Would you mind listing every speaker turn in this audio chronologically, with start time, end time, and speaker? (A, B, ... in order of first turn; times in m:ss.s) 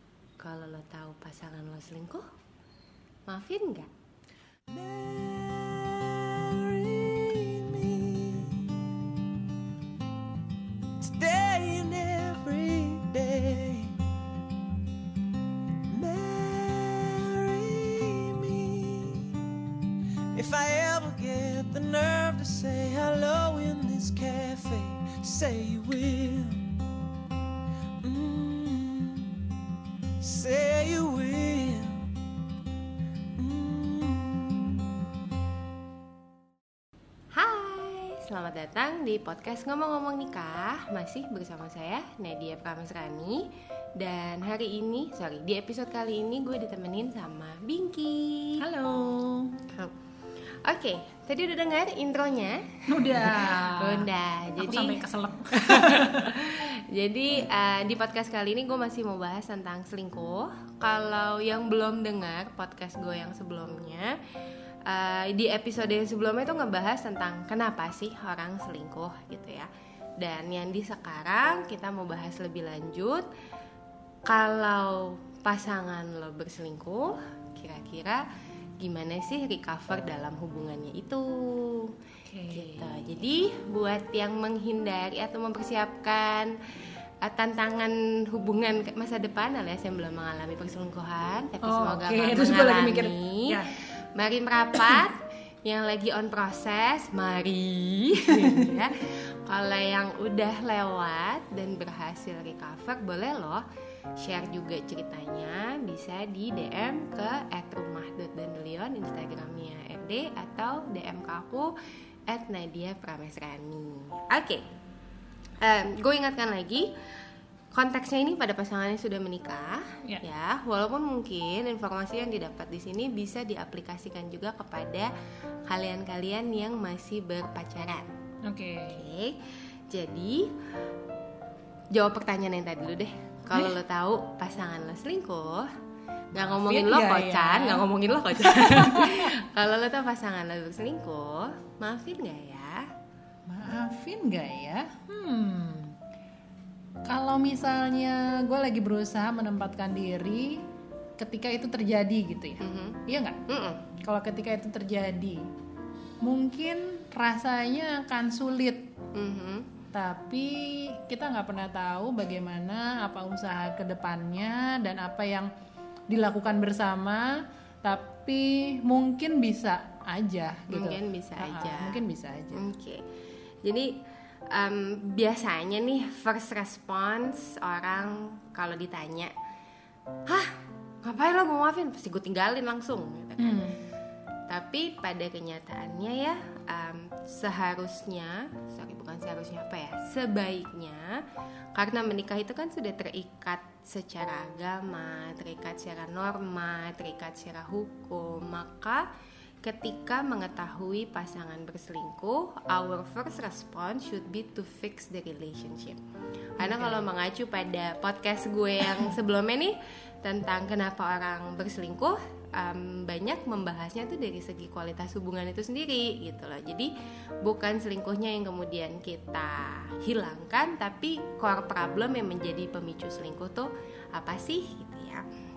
0:00.4-0:02.2 A
0:03.3-0:03.9 A
0:04.7-0:08.8 B
0:11.0-0:14.0 B
0:15.9-0:19.4 B
0:20.3-0:26.7 B
0:28.0-0:29.4 B
0:30.2-0:32.0 B
0:33.4-0:35.1 B
0:37.3-0:48.6 A
0:48.6-0:49.6 C
0:50.6-0:55.0 A
0:52.9-0:56.4 C
0:55.6-1:04.2 A
1:04.9-1:09.7 A
1:10.2-1:13.2 A
1:14.3-1:18.2 A
1:18.8-1:21.9 A
1:22.2-1:22.8 C
1:22.5-1:26.6 A
1:27.2-1:43.6 A
1:31.6-1:33.7 C
1:38.2-1:38.9 C
1:44.2-1:51.7 A
1:52.3-1:54.6 A
1:55.6-1:56.9 A
1:57.7-2:05.1 A
2:05.7-2:08.1 A
2:08.4-2:09.0 C
2:08.9-2:10.5 A
2:11.9-2:15.7 A
2:13.5-2:13.8 C
2:16.3-2:22.9 A
2:16.3-2:17.8 C
2:18.4-2:19.3 C
2:23.5-2:26.0 C
2:27.1-2:30.6 C
2:31.2-2:33.4 C
2:32.6-2:33.8 A
2:34.0-2:35.4 C
2:36.2-2:38.9 C
2:39.1-2:39.7 A
2:39.9-2:45.5 C
2:46.1-2:52.7 C
2:50.7-2:53.0 A
2:53.6-2:54.0 A
2:54.5-2:59.3 A
3:00.3-3:03.7 A
3:03.4-3:03.8 C
3:04.5-3:11.2 A
3:11.8-3:19.1 A
3:19.6-3:26.0 A
3:26.6-3:45.2 A
3:26.6-3:27.1 C